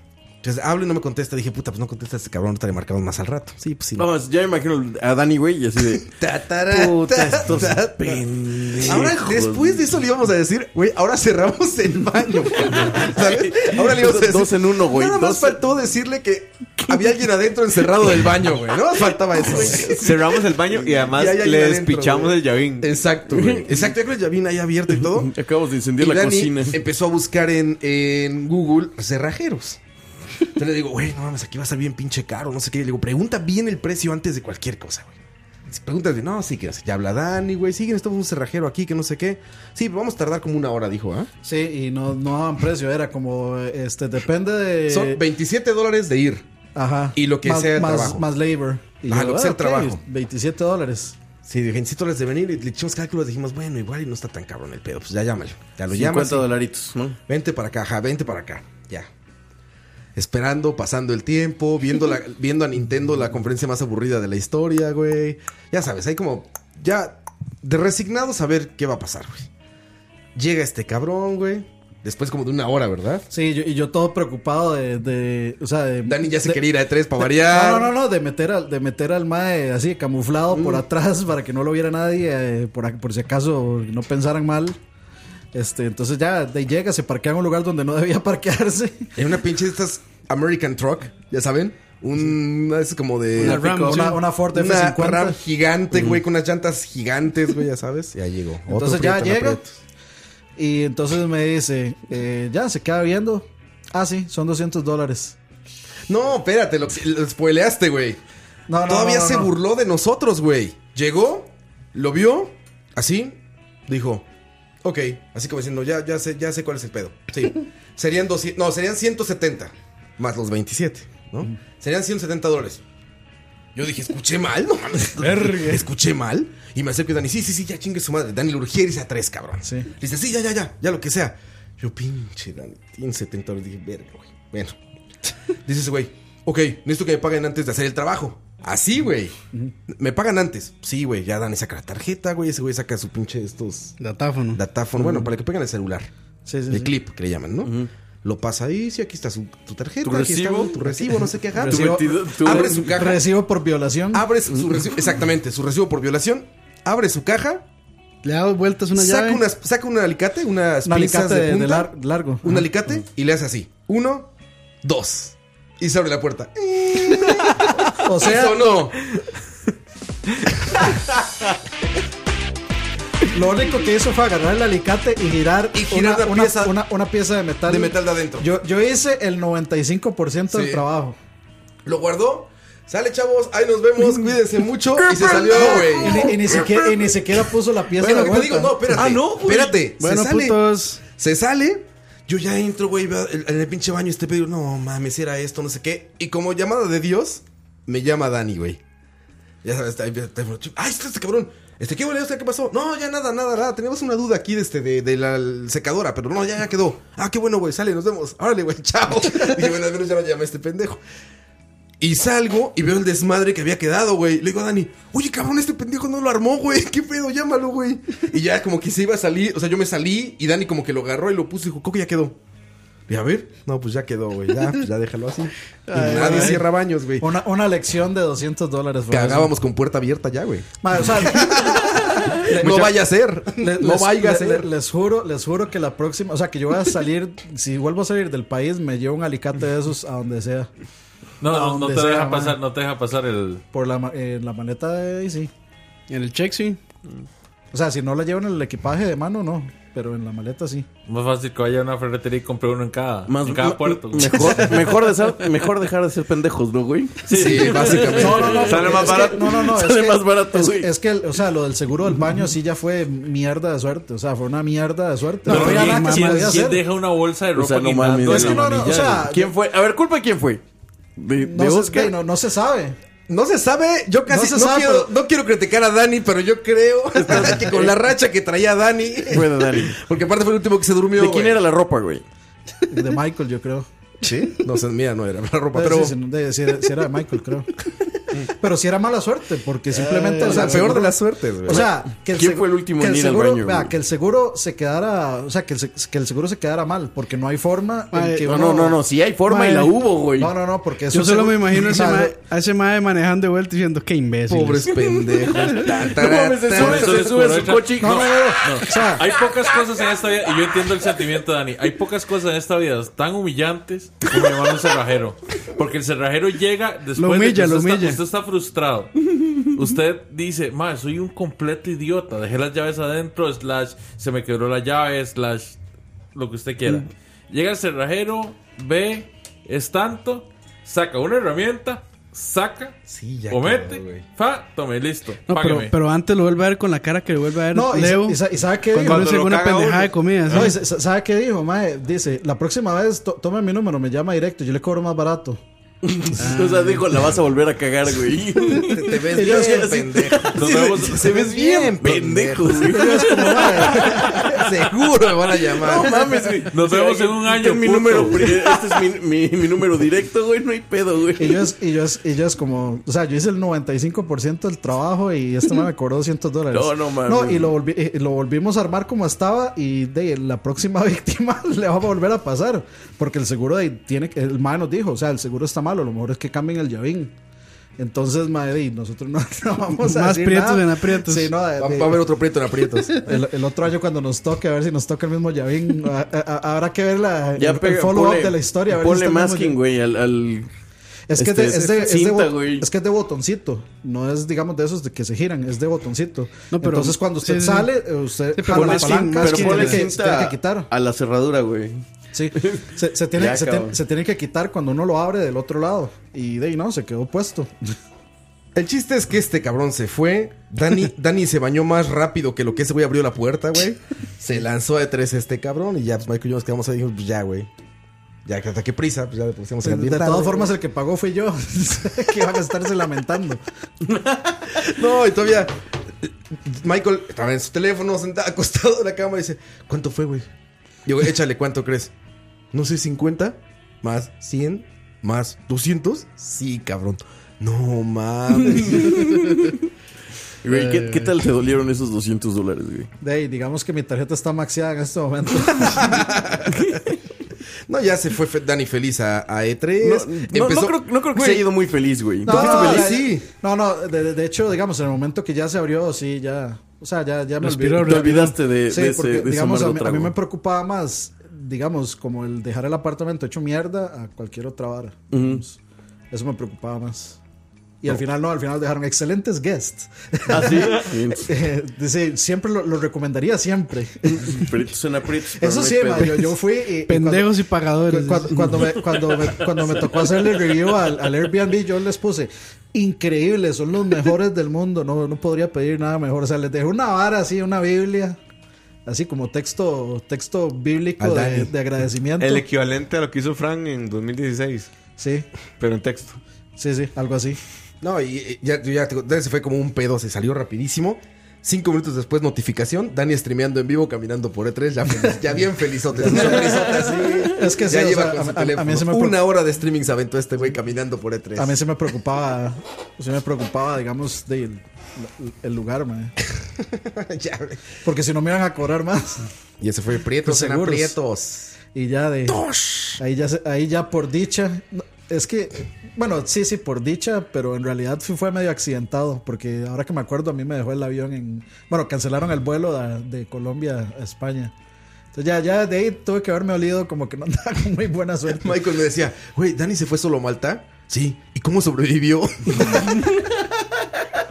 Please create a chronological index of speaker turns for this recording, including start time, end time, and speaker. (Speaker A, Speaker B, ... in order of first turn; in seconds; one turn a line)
Speaker A: 0.4-4.1
Speaker B: 4.0-6.1
Speaker A: 5.9-25.3
Speaker B: 6.7-9.8
Speaker B: 12.6-15.6
Speaker B: 19.4-20.2
Speaker C: 19.8-22.9
Speaker B: 23.3-23.8
Speaker B: 25.2-26.8
Speaker A: 26.0-29.8
Speaker A: 30.6-35.1
Speaker A: 35.7-41.3
Speaker D: 41.4-45.2
Speaker A: 44.9-46.5
Speaker D: 46.7-51.1
Speaker A: 47.1-48.2
Speaker A: 49.1-50.0
Speaker A: 51.4-56.5
Speaker B: 55.9-57.2
Speaker A: 57.3-59.1
Speaker A: 60.1-69.5
Speaker A: 70.3-73.2
Speaker D: 73.3-76.6
Speaker A: 76.0-77.9
Speaker D: 77.2-84.8
Speaker D: 85.5-89.1
Speaker A: 89.2-99.8
Speaker E: 93.4-94.2
Speaker D: 93.4-95.4
Speaker D: 98.7-99.6
Speaker D: 100.6-105.3
Speaker A: 106.1-108.2
Speaker D: 108.7-109.5
Speaker A: 108.8-114.3
Speaker A: 114.8-122.8
Speaker A: 123.7-134.8
Speaker D: 129.6-129.9
Speaker A: 135.6-139.3
Speaker A: 139.9-144.0
Speaker E: 144.0-144.6
Speaker A: 144.5-146.1
Speaker D: 146.4-146.9
Speaker A: 146.7-153.2
Speaker B: 150.0-151.1
Speaker D: 151.5-154.2
Speaker B: 151.6-152.8
Speaker A: 154.1-157.6
Speaker E: 158.2-159.4
Speaker A: 158.9-161.9
Speaker D: 160.8-162.6
Speaker A: 162.4-164.3
Speaker A: 164.8-169.1
Speaker D: 168.0-168.6
Speaker D: 173.3-181.2
Speaker A: 175.7-176.8
Speaker A: 177.7-178.5
Speaker A: 180.5-180.8
Speaker A: 181.8-186.8
Speaker B: 185.2-185.5
Speaker D: 185.3-189.2
Speaker A: 188.0-198.8
Speaker B: 188.9-189.8
Speaker E: 190.0-191.0
Speaker A: 199.6-211.0
Speaker A: 212.0-222.4
Speaker A: 223.1-227.3
Speaker D: 225.9-226.7
Speaker E: 226.0-226.6
Speaker D: 227.2-229.5
Speaker A: 229.1-234.7
Speaker D: 230.8-240.7
Speaker F: 241.4-243.6
Speaker D: 241.5-242.6
Speaker D: 243.7-245.5
Speaker E: 246.1-246.8
Speaker D: 247.7-250.8
Speaker F: 251.1-254.9
Speaker B: 253.3-260.9
Speaker A: 257.3-259.1
Speaker D: 258.1-266.8
Speaker E: 265.4-266.7
Speaker F: 265.5-269.0
Speaker B: 267.5-270.6
Speaker D: 268.2-269.5
Speaker B: 271.2-272.1
Speaker D: 271.4-273.0
Speaker A: 273.3-281.6
Speaker D: 274.3-275.1
Speaker B: 277.3-277.9
Speaker B: 279.3-280.0
Speaker B: 281.2-282.2
Speaker D: 282.9-283.9
Speaker A: 284.2-286.1
Speaker D: 285.7-287.7
Speaker D: 288.4-302.4
Speaker E: 290.1-290.9
Speaker A: 290.4-291.9
Speaker B: 291.7-293.9
Speaker E: 298.1-298.4
Speaker B: 298.4-300.5
Speaker E: 301.1-304.9
Speaker A: 304.5-307.2
Speaker B: 305.0-308.3
Speaker F: 306.7-325.8
Speaker D: 308.0-309.2
Speaker E: 317.2-318.2
Speaker F: 326.3-333.0
Speaker A: 333.1-334.2
Speaker F: 333.5-335.9
Speaker E: 335.5-338.4
Speaker D: 337.7-339.3
Speaker E: 338.9-340.8
Speaker C: 338.9-340.2
Speaker D: 340.5-345.6
Speaker B: 346.0-354.7
Speaker E: 346.4-347.2
Speaker A: 348.8-353.0
Speaker D: 349.3-349.9
Speaker F: 350.6-351.5
Speaker D: 352.9-354.6
Speaker A: 353.8-356.3
Speaker B: 355.7-361.6
Speaker F: 356.7-358.8
Speaker D: 361.4-377.3
Speaker B: 366.7-367.7
Speaker D: 378.0-382.3
Speaker E: 379.9-381.5
Speaker A: 381.8-383.2
Speaker D: 383.1-389.8
Speaker B: 387.6-390.7
Speaker D: 391.3-400.9
Speaker B: 391.3-392.9
Speaker E: 396.7-398.0
Speaker E: 398.5-400.1
Speaker B: 398.7-402.0
Speaker D: 402.3-407.9
Speaker B: 402.6-404.0
Speaker A: 408.7-417.7
Speaker A: 418.4-420.7
Speaker D: 419.8-423.6
Speaker B: 424.1-424.5
Speaker A: 424.7-430.5
Speaker A: 431.1-432.1
Speaker A: 432.7-439.3
Speaker B: 438.7-439.8
Speaker B: 440.6-443.1
Speaker E: 440.7-441.3
Speaker D: 443.2-446.2
Speaker A: 445.8-446.8
Speaker A: 447.9-451.7
Speaker B: 450.0-453.1
Speaker A: 452.4-453.4
Speaker D: 452.4-465.8
Speaker B: 457.6-460.3
Speaker B: 465.3-465.6
Speaker D: 466.3-467.4
Speaker D: 468.0-474.7
Speaker B: 470.5-471.5
Speaker B: 474.2-476.6
Speaker D: 475.5-477.5
Speaker E: 477.1-479.0
Speaker D: 478.1-488.4
Speaker D: 489.1-492.6
Speaker A: 491.2-491.7
Speaker C: 492.4-494.9
Speaker D: 495.2-495.5
Speaker C: 495.8-496.4
Speaker D: 496.8-497.6
Speaker A: 498.0-511.8
Speaker D: 506.1-509.4
Speaker D: 511.6-516.3
Speaker A: 516.8-517.8
Speaker D: 518.0-519.4
Speaker A: 519.8-521.7
Speaker D: 520.4-521.2
Speaker D: 521.9-522.6
Speaker A: 522.5-523.2
Speaker D: 523.2-534.7
Speaker D: 535.3-538.8
Speaker A: 538.5-543.5